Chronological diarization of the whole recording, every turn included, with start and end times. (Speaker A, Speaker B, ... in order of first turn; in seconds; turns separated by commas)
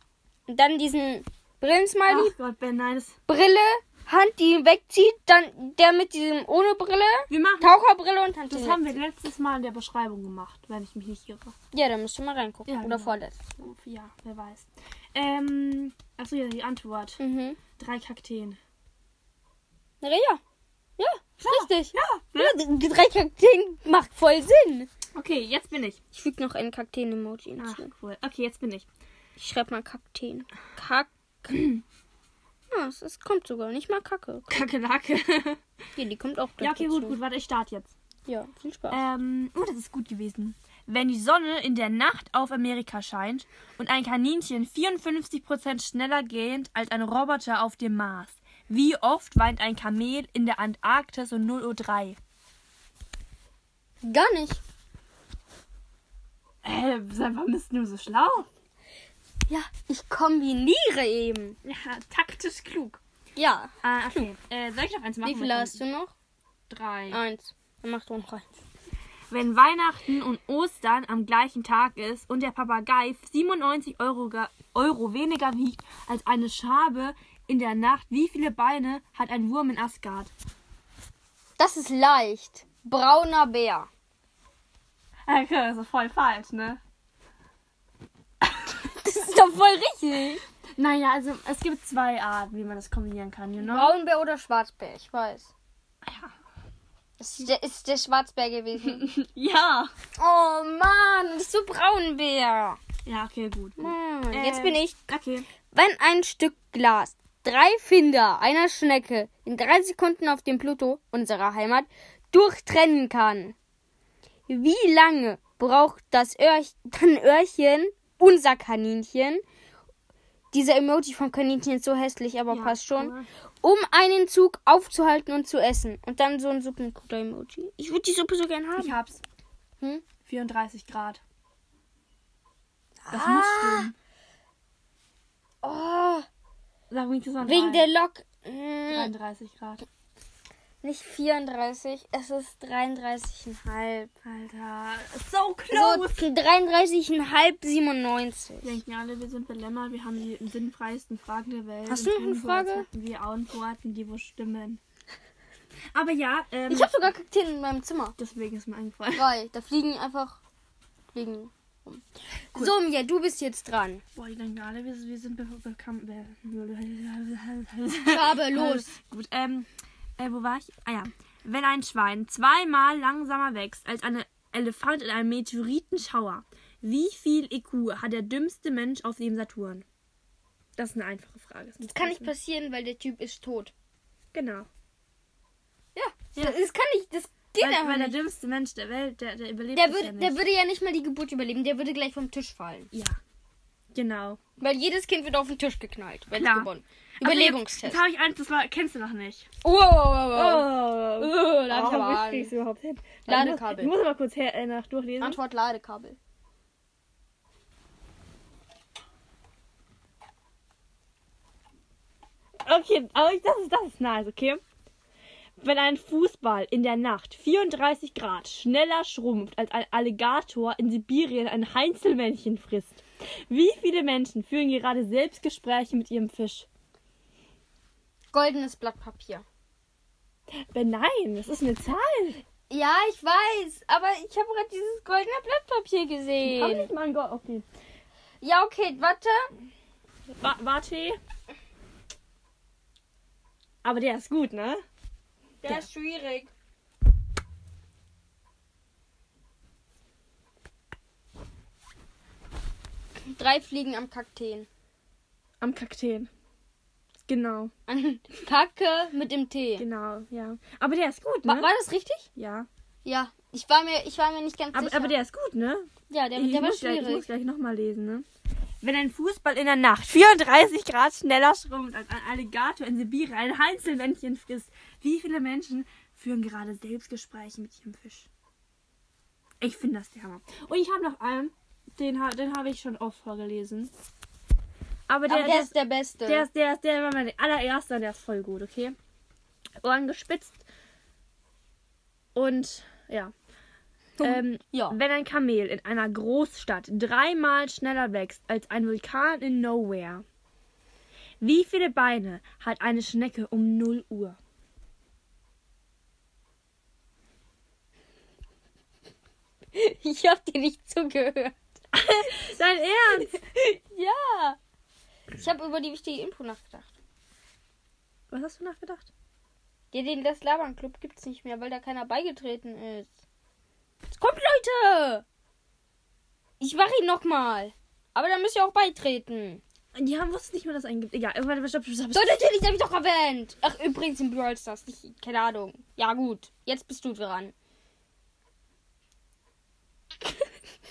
Speaker A: 0.5-2.3, Speaker B: 2.1-3.1, Speaker A: 3.3-8.9, Speaker B: 7.3-7.7, Speaker B: 8.5-11.5, Speaker A: 11.7-13.4, Speaker B: 12.7-17.2, Speaker A: 17.2-17.6, Speaker B: 17.8-18.6, Speaker A: 20.0-20.4, Speaker A: 21.0-24.9, Speaker B: 21.4-22.6, Speaker B: 25.1-26.0, Speaker A: 26.1-27.9, Speaker B: 27.6-28.9, Speaker A: 29.4-31.8, Speaker A: 32.7-34.6, Speaker B: 34.5-35.6, Speaker A: 36.0-37.2, Speaker B: 36.6-37.9, Speaker A: 38.3-39.0, Speaker B: 38.9-52.2, Speaker A: 54.0-54.6, Speaker B: 56.6-58.5, Speaker A: 59.5-61.6, Speaker B: 61.6-63.0, Speaker A: 63.4-64.3, Speaker B: 63.8-65.8, Speaker A: 65.2-66.1, Speaker B: 66.7-67.2, Speaker A: 67.1-68.6, Speaker B: 69.3-80.3, Speaker A: 81.6-83.9, Speaker B: 85.3-86.8, Speaker A: 88.8-90.4, Speaker B: 90.8-94.0, Speaker A: 93.6-95.5, Speaker B: 96.0-96.3, Speaker A: 97.2-99.0, Speaker B: 98.8-99.9, Speaker A: 100.2-102.8, Speaker B: 103.0-105.5, Speaker A: 103.8-105.0, Speaker A: 105.7-113.5, Speaker A: 114.5-119.4, Speaker A: 120.5-128.9, Speaker B: 122.5-123.3, Speaker B: 128.8-129.2, Speaker B: 130.2-131.2, Speaker A: 133.0-133.9, Speaker B: 133.1-133.9, Speaker A: 135.6-136.2, Speaker B: 136.9-137.9, Speaker A: 137.4-139.1, Speaker B: 138.9-139.8, Speaker A: 140.8-144.1, Speaker B: 144.2-146.2, Speaker A: 145.7-148.8, Speaker B: 148.6-154.8, Speaker A: 151.8-152.9, Speaker B: 155.9-157.1, Speaker A: 156.7-158.2, Speaker B: 158.2-159.3, Speaker A: 159.1-160.4, Speaker A: 161.1-164.0, Speaker B: 164.2-179.8, Speaker A: 168.1-168.9, Speaker B: 180.8-182.3, Speaker A: 181.8-183.7, Speaker B: 184.3-184.7, Speaker A: 185.9-188.2, Speaker B: 187.6-190.4, Speaker A: 189.7-192.9, Speaker B: 192.9-193.2, Speaker B: 193.9-194.4, Speaker A: 194.6-198.0, Speaker B: 196.3-196.7, Speaker B: 197.2-199.5, Speaker A: 199.6-202.5, Speaker B: 200.3-205.4, Speaker A: 203.2-203.9, Speaker A: 205.2-206.2, Speaker B: 212.6-214.6, Speaker B: 215.6-226.7, Speaker A: 228.3-229.4, Speaker B: 230.7-232.4, Speaker A: 232.7-236.9, Speaker B: 236.4-237.7, Speaker A: 238.4-239.5, Speaker B: 240.3-241.2, Speaker B: 243.8-244.8, Speaker A: 245.6-246.5, Speaker A: 253.2-254.7, Speaker B: 255.6-256.3, Speaker B: 257.2-257.7, Speaker A: 257.9-259.8, Speaker B: 259.8-261.7, Speaker A: 261.4-262.3, Speaker B: 262.4-262.7, Speaker A: 263.0-265.2, Speaker B: 264.7-268.2, Speaker A: 266.1-267.3, Speaker B: 268.8-278.3, Speaker B: 279.6-283.9, Speaker B: 285.1-285.7, Speaker A: 285.2-286.5, Speaker B: 286.3-288.9, Speaker B: 289.8-290.6, Speaker B: 292.3-293.3, Speaker A: 294.2-295.0, Speaker B: 294.2-300.2, Speaker B: 301.4-304.4, Speaker A: 309.7-311.6, Speaker B: 311.9-313.3, Speaker A: 313.2-314.6, Speaker A: 315.3-316.9, Speaker B: 318.3-319.1, Speaker A: 319.9-323.1, Speaker A: 324.1-325.2, Speaker A: 326.6-329.6, Speaker B: 329.9-332.5, Speaker A: 332.1-337.5